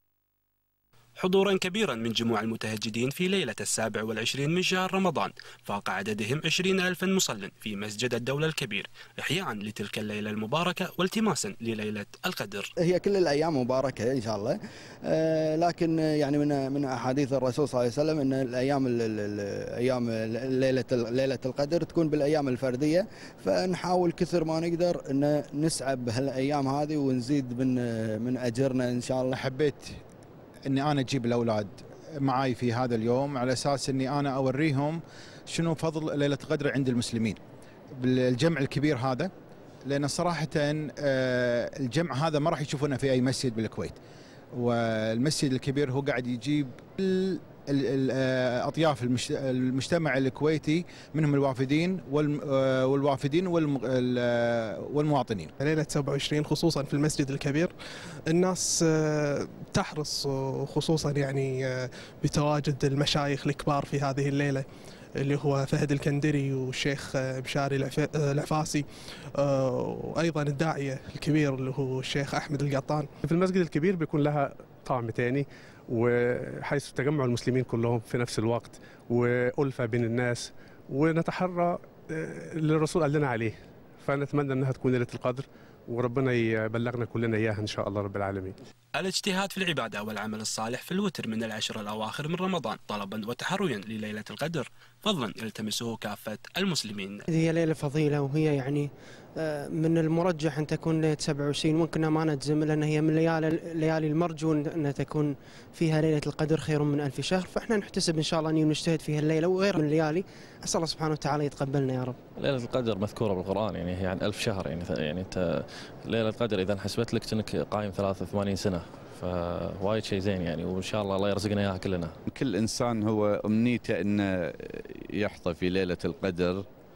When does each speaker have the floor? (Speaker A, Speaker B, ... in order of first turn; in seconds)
Speaker A: 1.2-12.7, 89.0-97.2
Speaker B: 12.8-29.4
Speaker C: 29.4-30.0, 30.7-37.4, 38.0-39.3, 39.8-44.0, 44.5-55.5
Speaker D: 55.6-57.7, 58.3-64.7, 65.2-68.9, 69.4-73.1
Speaker E: 73.2-88.5
Speaker F: 97.3-112.2
Speaker G: 112.4-122.2
Speaker H: 122.3-126.7